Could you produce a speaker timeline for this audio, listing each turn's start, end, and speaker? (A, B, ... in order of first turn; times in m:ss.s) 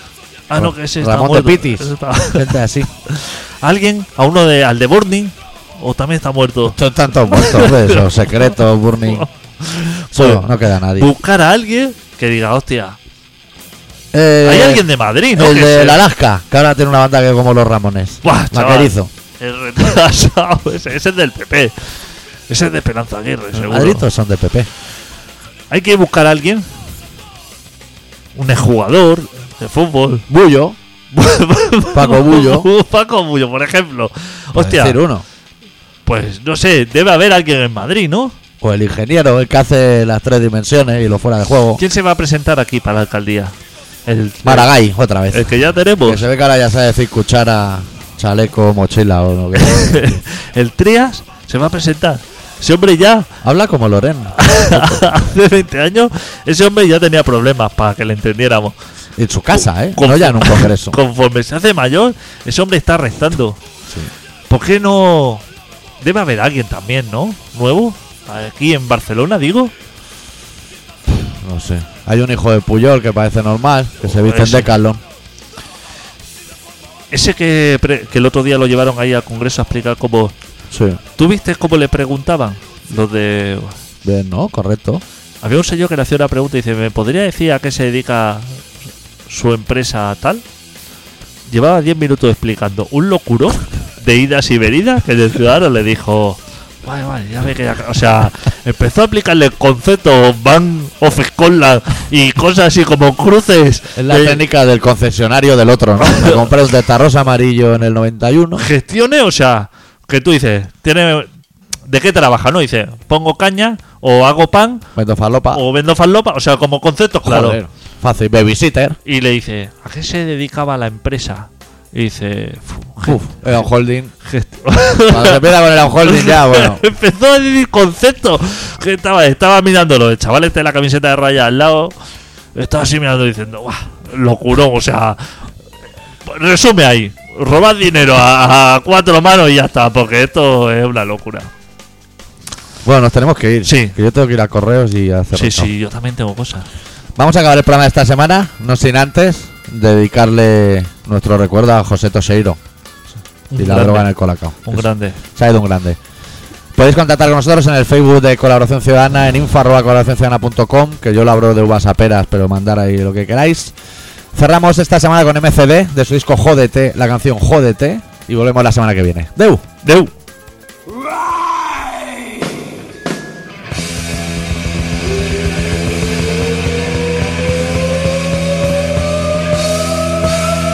0:00.5-0:02.6 A
0:00.5-0:02.9 B
0:03.1-0:08.4 A
0:06.6-0:09.2 B
0:09.0-0:13.0 A
0:10.1-0:11.1 B
0:14.1-0:19.1 B
0:14.4-0:16.0 A
0:18.2-0:22.0 A
0:22.5-0:24.0 A
0:23.5-0:24.7 B
0:25.7-0:26.6 A
0:28.4-0:30.2 A
0:30.3-0:30.8 B
0:31.1-0:35.0 A
0:31.9-0:32.7 B
0:34.5-0:35.2 B
0:36.0-0:38.4 A
0:38.6-0:41.8 B
0:41.8-0:44.7 A
0:44.4-0:45.5 B
0:45.3-0:46.2 A
0:46.0-0:50.2 B
0:49.6-0:53.3 A
0:53.4-0:55.2 B
0:54.4-0:58.7 A
0:59.2-1:01.0 B
1:00.0-1:03.6 A
1:04.5-1:05.4 A
1:06.0-1:09.7 A
1:11.2-1:15.0 B
1:14.0-1:14.7 A
1:17.1-1:20.3 A
1:20.7-1:21.0 B
1:21.2-1:23.8 A
1:24.0-1:25.0 B
1:25.4-1:28.6 A
1:29.3-1:30.4 A
1:31.5-1:44.4 A
1:44.0-1:48.7 B
1:46.0-1:46.5 A
1:48.6-1:51.3 A
1:51.9-1:54.8 A
1:54.9-1:55.6 B
1:55.5-1:57.6 A
1:57.2-1:59.0 B
1:59.0-2:03.2 A
2:03.0-2:04.1 B
2:04.2-2:11.9 A
2:05.1-2:06.8 B
2:12.5-2:15.2 A
2:16.2-2:21.5 A
2:22.8-2:25.7 B
2:23.6-2:24.0 A
2:25.3-2:26.7 A
2:27.2-2:32.6 B
2:33.5-2:34.1 A
2:33.6-2:36.0 B
2:34.6-2:35.2 A
2:36.7-2:43.7 B
2:44.3-2:49.9 B
2:49.8-2:50.1 A